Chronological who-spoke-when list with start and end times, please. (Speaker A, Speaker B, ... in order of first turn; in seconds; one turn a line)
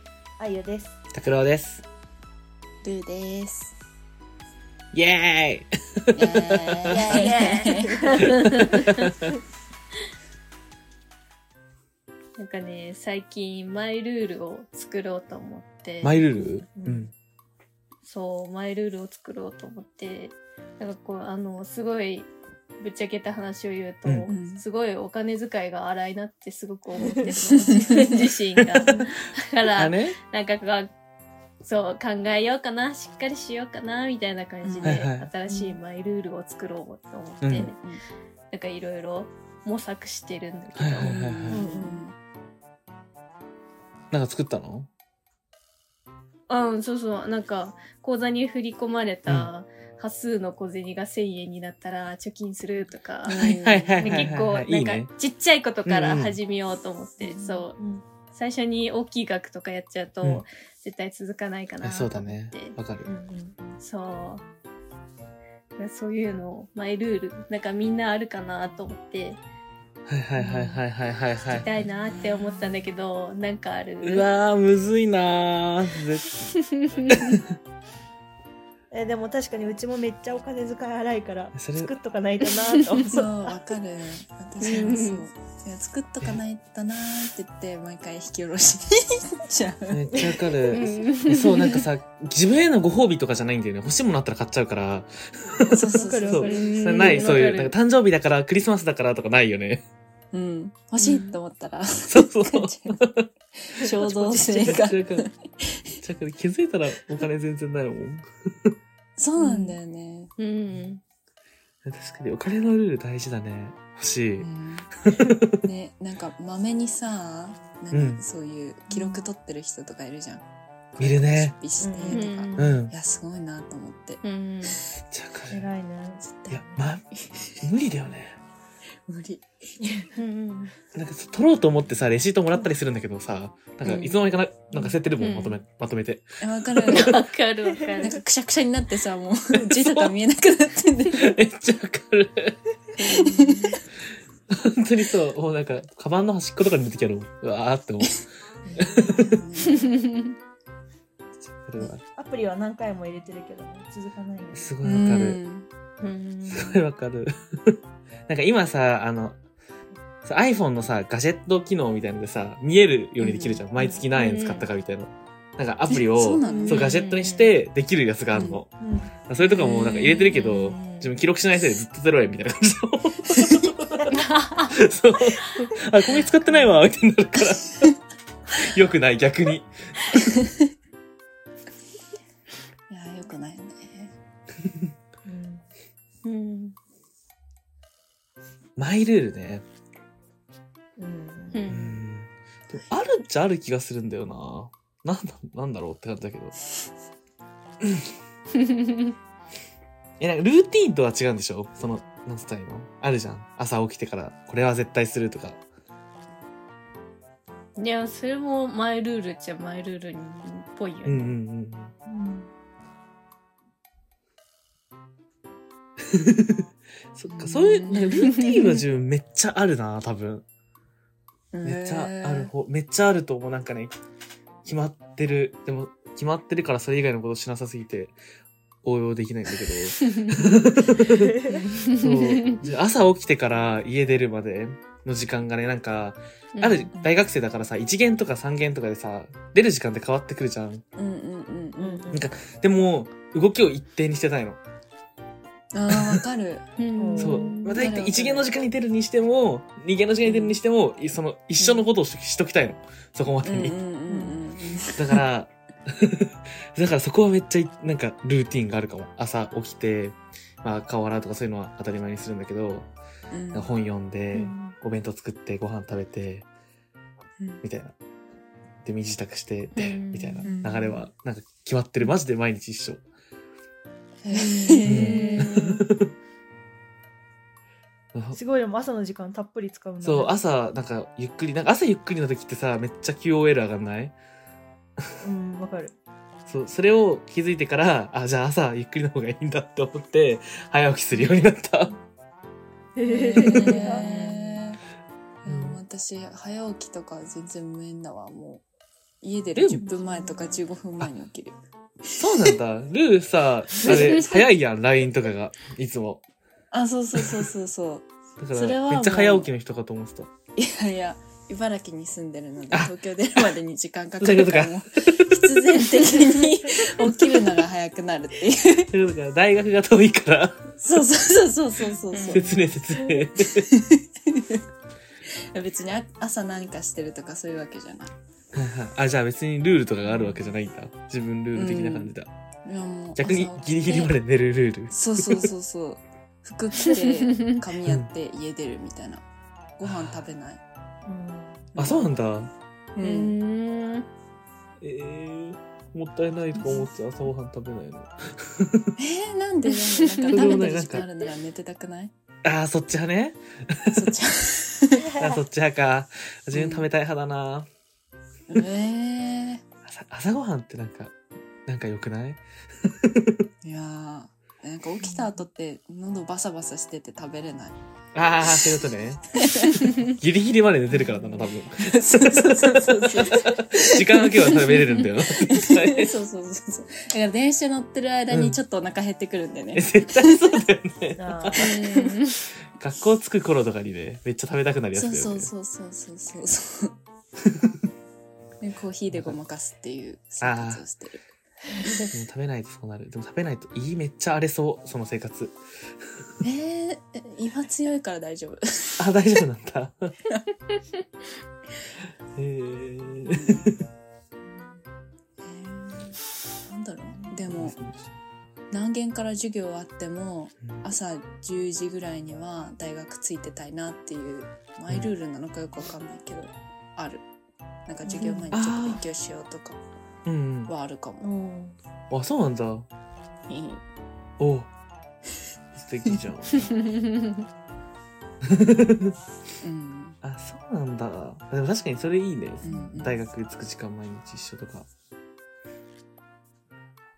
Speaker A: 0.4-0.9
Speaker B: 1.1-1.8
Speaker C: 2.8-3.7
Speaker B: 4.9-7.1
Speaker C: 6.2-8.3
Speaker D: 6.9-8.9
Speaker A: 7.1-7.7
Speaker B: 8.4-8.9
Speaker D: 12.4-16.2
Speaker B: 16.0-17.1
Speaker A: 16.8-17.1
Speaker D: 18.0-30.9
Speaker B: 24.1-24.3
Speaker C: 24.3-24.6
Speaker A: 27.0-28.1
Speaker C: 27.3-28.0
Speaker B: 29.8-30.2
Speaker D: 31.6-37.8
Speaker C: 34.6-35.0
Speaker B: 34.8-35.3
Speaker A: 35.5-35.8
Speaker B: 37.4-37.7
Speaker C: 37.5-38.0
Speaker D: 38.5-41.2
Speaker B: 40.8-41.6
Speaker C: 41.0-42.2
Speaker A: 41.5-42.0
Speaker B: 44.1-44.9
Speaker D: 46.5-53.4
Speaker C: 53.3-54.3
Speaker B: 53.4-55.1
Speaker D: 54.0-57.8
Speaker B: 55.9-56.4
Speaker C: 57.2-57.6
Speaker A: 57.8-58.0
Speaker D: 58.3-62.8
Speaker B: 61.8-63.1
Speaker A: 63.0-63.8
Speaker D: 63.8-64.5
Speaker D: 65.8-69.4
Speaker B: 70.1-71.8
Speaker A: 70.4-70.7
Speaker D: 71.5-74.3
Speaker B: 74.0-76.4
Speaker D: 76.8-77.4
Speaker A: 78.9-83.4
Speaker B: 81.5-81.9
Speaker C: 83.0-90.7
Speaker D: 84.6-85.3
Speaker B: 89.9-99.8
Speaker D: 90.7-91.7
Speaker C: 91.6-91.9
Speaker C: 95.7-96.6
Speaker A: 95.8-97.3
Speaker D: 96.4-97.8
Speaker C: 100.3-103.0
Speaker B: 102.0-103.3
Speaker C: 103.6-105.9
Speaker B: 103.9-105.3
Speaker B: 106.0-108.7
Speaker C: 109.2-110.3
Speaker D: 110.4-111.0
Speaker B: 111.8-114.5
Speaker C: 114.4-114.9
Speaker B: 115.0-115.7
Speaker C: 115.6-124.8
Speaker B: 117.9-118.2
Speaker B: 121.0-121.6
Speaker A: 121.8-122.3
Speaker D: 122.1-122.8
Speaker B: 122.6-122.9
Speaker D: 124.2-124.8
Speaker B: 125.1-125.7
Speaker A: 125.5-126.9
Speaker C: 126.2-127.7
Speaker B: 126.5-127.0
Speaker B: 127.6-128.4
Speaker C: 129.1-129.5
Speaker A: 129.8-130.1
Speaker D: 130.2-130.7
Speaker B: 130.9-137.2
Speaker C: 133.8-134.2
Speaker D: 135.2-135.6
Speaker C: 136.4-137.1
Speaker D: 136.9-138.2
Speaker C: 138.0-141.3
Speaker B: 139.7-140.1
Speaker B: 141.1-142.6
Speaker C: 143.0-143.8
Speaker D: 143.2-143.6
Speaker B: 144.5-149.3
Speaker A: 148.7-149.0
Speaker C: 149.2-149.9
Speaker D: 149.8-150.2
Speaker B: 151.4-152.0
Speaker A: 152.1-154.8
Speaker B: 154.5-155.4
Speaker C: 154.8-155.7
Speaker D: 156.0-156.8
Speaker B: 156.5-157.8
Speaker B: 158.3-159.4
Speaker B: 160.2-168.7
Speaker C: 163.2-163.7
Speaker D: 163.8-164.7
Speaker C: 165.9-166.9
Speaker D: 166.4-167.5
Speaker C: 168.3-168.6
Speaker A: 168.8-169.1
Speaker B: 169.3-174.1
Speaker C: 169.4-170.5
Speaker D: 170.3-171.1
Speaker C: 173.3-173.7
Speaker A: 174.0-174.3
Speaker D: 174.1-174.7
Speaker B: 174.6-177.9
Speaker B: 178.5-179.7
Speaker C: 182.9-184.2
Speaker A: 185.2-185.7
Speaker D: 186.2-186.8
Speaker B: 188.8-189.7
Speaker A: 191.0-191.6
Speaker D: 191.5-192.0
Speaker B: 191.7-196.6
Speaker D: 198.7-199.1
Speaker B: 200.2-205.6
Speaker D: 207.8-211.3
Speaker B: 211.1-211.9
Speaker A: 212.1-212.5
Speaker B: 216.1-220.4
Speaker C: 217.3-218.3
Speaker D: 218.1-218.8
Speaker C: 221.5-222.5
Speaker B: 221.6-223.9
Speaker B: 224.6-228.2
Speaker B: 228.8-240.8
Speaker D: 230.0-230.3
Speaker A: 231.1-231.6
Speaker D: 231.9-232.6
Speaker D: 236.6-236.9
Speaker C: 241.0-242.1
Speaker A: 241.8-242.3
Speaker B: 242.1-244.6
Speaker C: 245.7-246.7
Speaker B: 245.9-246.2
Speaker D: 246.8-247.8
Speaker A: 247.0-247.6
Speaker B: 247.2-253.8
Speaker C: 247.8-248.5
Speaker C: 250.2-250.6
Speaker C: 251.6-251.9
Speaker C: 253.4-255.2
Speaker A: 254.1-254.4
Speaker B: 255.0-262.9
Speaker C: 263.3-263.7
Speaker B: 263.5-266.5
Speaker D: 264.3-264.7
Speaker B: 267.6-267.9
Speaker B: 268.8-273.0
Speaker D: 269.8-270.5
Speaker C: 270.4-271.1
Speaker C: 274.2-275.8
Speaker A: 274.3-275.4
Speaker D: 274.8-275.5
Speaker B: 274.9-276.0
Speaker B: 278.1-278.4
Speaker A: 278.3-280.3
Speaker B: 280.0-284.1
Speaker A: 285.2-285.9
Speaker B: 286.5-292.0
Speaker A: 292.9-294.3
Speaker C: 293.1-294.8
Speaker C: 295.4-298.6
Speaker B: 295.4-295.8
Speaker C: 299.2-302.6
Speaker B: 299.6-299.9
Speaker A: 299.8-300.6
Speaker B: 302.2-306.2
Speaker C: 303.8-304.5
Speaker C: 306.7-309.5
Speaker B: 307.2-307.5
Speaker B: 308.4-310.3
Speaker C: 310.6-318.9
Speaker B: 314.2-316.0
Speaker B: 318.9-320.7
Speaker C: 320.8-322.6
Speaker D: 322.1-322.5
Speaker B: 322.3-323.7
Speaker C: 323.7-324.6
Speaker C: 325.5-328.1
Speaker B: 328.5-332.3
Speaker C: 330.1-330.5
Speaker C: 331.5-332.1
Speaker C: 332.6-334.1
Speaker B: 333.1-335.5
Speaker C: 334.9-339.3
Speaker C: 339.8-340.6
Speaker B: 339.8-340.3
Speaker A: 341.1-341.6
Speaker C: 341.8-342.1
Speaker B: 341.8-342.5
Speaker C: 343.0-343.4
Speaker D: 343.0-344.1
Speaker B: 344.8-348.9
Speaker C: 346.6-346.9
Speaker C: 349.0-352.1
Speaker B: 350.3-351.1
Speaker B: 352.4-354.0
Speaker C: 353.9-355.1
Speaker A: 355.0-355.4
Speaker B: 355.2-357.7
Speaker C: 356.5-356.9
Speaker C: 358.5-359.6
Speaker B: 359.9-361.1
Speaker B: 361.7-363.3
Speaker C: 363.6-367.7
Speaker A: 365.0-365.4
Speaker B: 368.1-369.4
Speaker C: 369.4-369.9
Speaker B: 370.1-376.1
Speaker C: 370.9-380.4
Speaker B: 378.3-378.6
Speaker B: 379.8-381.7
Speaker A: 381.2-381.6
Speaker C: 381.6-382.1
Speaker D: 381.6-382.4
Speaker B: 382.7-385.5
Speaker C: 384.9-387.0
Speaker C: 388.6-391.2
Speaker B: 390.4-390.8
Speaker B: 392.1-395.6
Speaker C: 396.4-399.1
Speaker B: 399.0-400.1
Speaker B: 402.4-403.8
Speaker C: 403.3-403.7
Speaker C: 404.4-404.8
Speaker C: 405.4-407.8
Speaker B: 407.5-408.0
Speaker C: 408.7-417.2
Speaker C: 417.9-419.8
Speaker A: 418.1-418.4
Speaker B: 418.5-419.0
Speaker B: 420.3-420.7
Speaker C: 420.7-421.3
Speaker A: 421.2-421.8
Speaker B: 422.1-422.9
Speaker C: 423.5-423.8
Speaker B: 424.4-424.7
Speaker B: 425.7-426.7
Speaker B: 428.5-429.1
Speaker C: 429.6-430.2
Speaker B: 430.2-434.9
Speaker C: 432.6-433.2
Speaker D: 432.7-433.0